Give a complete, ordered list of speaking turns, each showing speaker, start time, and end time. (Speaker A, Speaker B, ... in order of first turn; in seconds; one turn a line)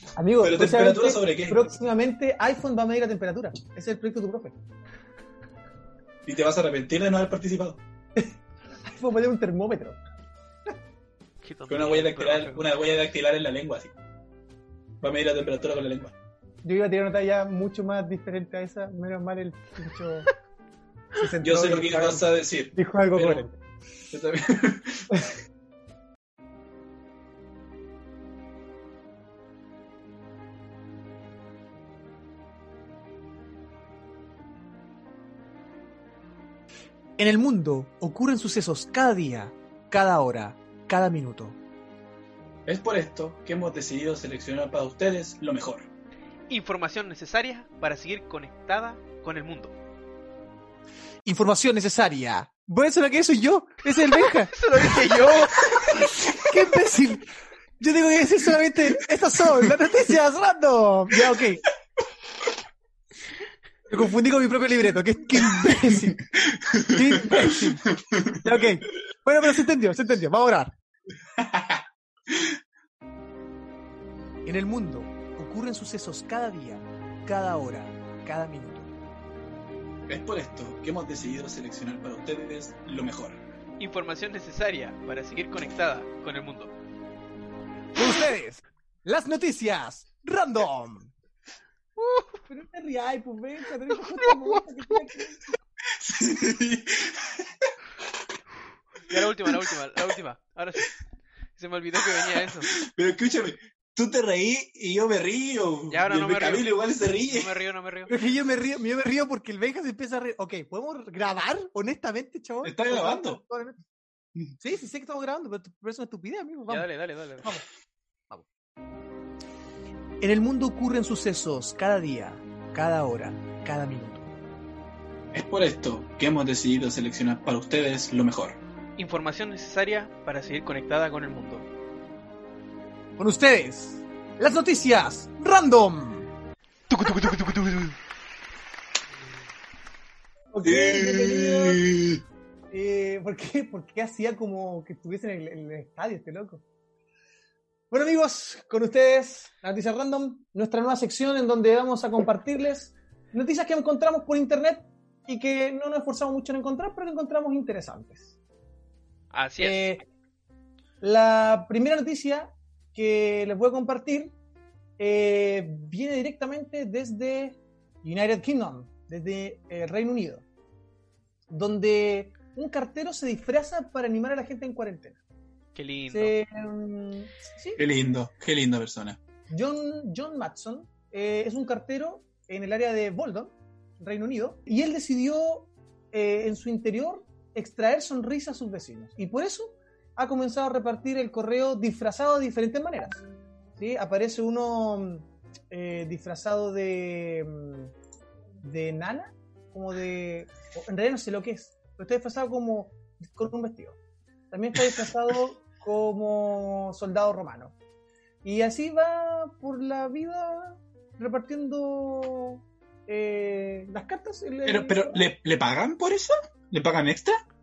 Speaker A: 0.1-4.5
Speaker B: 0.4-1.7
Speaker B: 6.2-7.8
Speaker A: 8.8-10.0
Speaker C: 11.4-12.7
Speaker B: 11.7-13.9
Speaker B: 15.0-16.1
Speaker A: 16.6-20.3
Speaker A: 21.1-23.6
Speaker B: 21.4-23.5
Speaker B: 24.1-25.1
Speaker A: 37.2-41.6
Speaker B: 42.6-45.9
Speaker C: 46.5-49.7
Speaker A: 51.2-55.1
Speaker C: 54.5-55.9
Speaker A: 56.0-57.2
Speaker A: 57.8-61.7
Speaker A: 63.9-66.3
Speaker B: 66.4-67.5
Speaker A: 66.8-70.7
Speaker B: 68.1-68.4
Speaker B: 71.4-72.5
Speaker A: 74.4-78.9
Speaker B: 80.1-83.4
Speaker C: 83.8-86.7
Speaker A: 87.9-91.1
Speaker C: 92.0-92.3
Speaker A: 92.5-95.6
Speaker B: 95.9-97.7
Speaker C: 99.0-100.9
Speaker C: 101.5-102.7
Speaker B: 102.2-107.5
Speaker C: 105.9-108.1
Speaker A: 108.1-113.8
Speaker B: 112.6-113.4
Speaker A: 114.6-116.9
Speaker C: 116.7-117.6
Speaker A: 120.2-124.3
Speaker B: 125.3-128.6
Speaker C: 129.0-131.7
Speaker A: 133.2-136.3
Speaker C: 136.9-137.9
Speaker A: 140.5-141.8
Speaker B: 140.6-142.2
Speaker A: 142.7-146.6
Speaker A: 147.9-158.3
Speaker C: 159.3-159.8
Speaker A: 159.6-160.0
Speaker A: 161.0-164.3
Speaker A: 165.0-170.4
Speaker A: 171.5-175.2
Speaker C: 175.7-176.4
Speaker A: 176.1-177.8
Speaker B: 177.8-179.2
Speaker A: 179.5-193.2
Speaker A: 193.8-197.9
Speaker A: 198.6-204.0
Speaker A: 204.5-207.7
Speaker A: 208.4-215.3
Speaker B: 214.6-217.4